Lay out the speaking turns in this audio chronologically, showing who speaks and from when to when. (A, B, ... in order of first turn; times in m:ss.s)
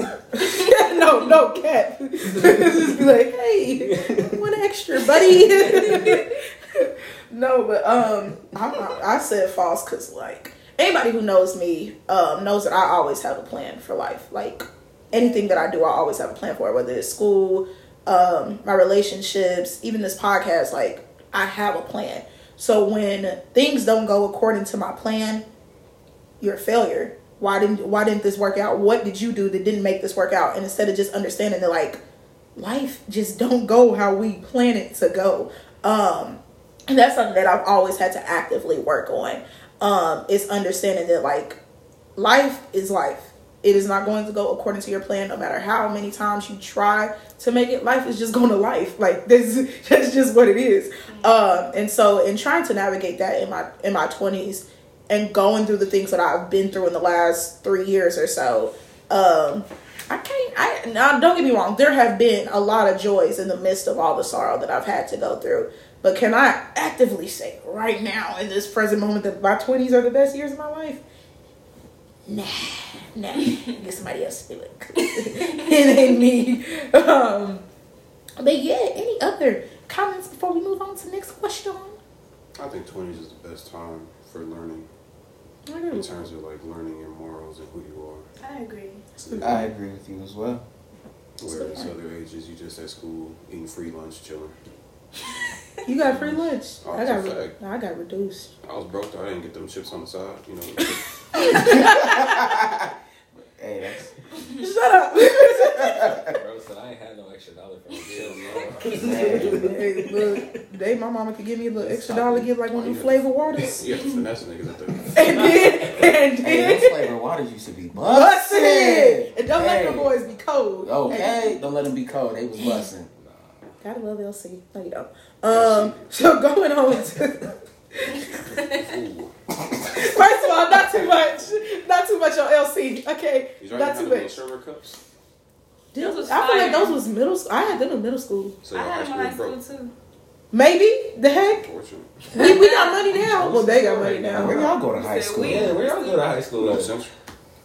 0:00.3-0:25.4 A
0:00.4-0:01.3 B
0:02.3-0:02.9 C
0:03.8-0:04.5 C
0:05.1-0:06.2 B
0:15.1-0:15.6 B
0:26.4-0:32.0 A
0:32.6-0:41.6 A
0:42.2-1:11.0 A
0:51.1-0:51.4 B
1:12.3-1:17.6 A
1:15.0-1:15.7 B
1:18.4-1:22.0 A
1:22.6-1:24.9 D
1:25.7-1:26.2 A
1:25.9-1:28.3 D
1:28.4-1:29.1 B
1:29.2-1:29.7 A
1:29.4-1:30.6 E
1:31.4-1:34.6 D
1:31.5-1:31.9 A
1:35.8-1:38.5 A
1:36.0-1:36.4 C
1:36.8-1:37.6 D
1:38.6-1:41.8 D
1:41.5-1:41.8 A
1:41.6-1:44.1 E
1:44.6-1:46.2 A
1:45.8-1:46.3 E
1:46.2-1:50.6 C
1:48.0-1:49.4 D
1:48.9-1:49.7 E
1:49.3-1:53.9 A
1:51.8-1:56.1 D
1:55.1-1:57.1 A
1:55.3-1:55.9 C
1:56.4-2:00.1 E
1:58.0-2:01.6 A
2:00.8-2:03.1 E
2:01.1-2:01.4 B
2:03.8-2:08.2 A
2:05.5-2:06.1 D
2:08.5-2:08.9 B
2:08.5-2:09.3 D
2:09.9-2:14.4 A
2:10.9-2:11.4 D
2:13.6-2:15.0 D
2:15.9-2:18.6 A
2:16.0-2:17.0 B
2:18.6-2:19.6 D
2:18.7-2:19.9 B
2:20.5-2:21.6 A
2:21.5-2:22.5 D
2:22.3-2:24.7 A
2:22.3-2:23.1 B
2:23.1-2:24.7 C
2:24.3-2:25.8 E
2:24.5-2:26.3 B
2:25.4-2:27.0 C
2:26.6-2:27.1 D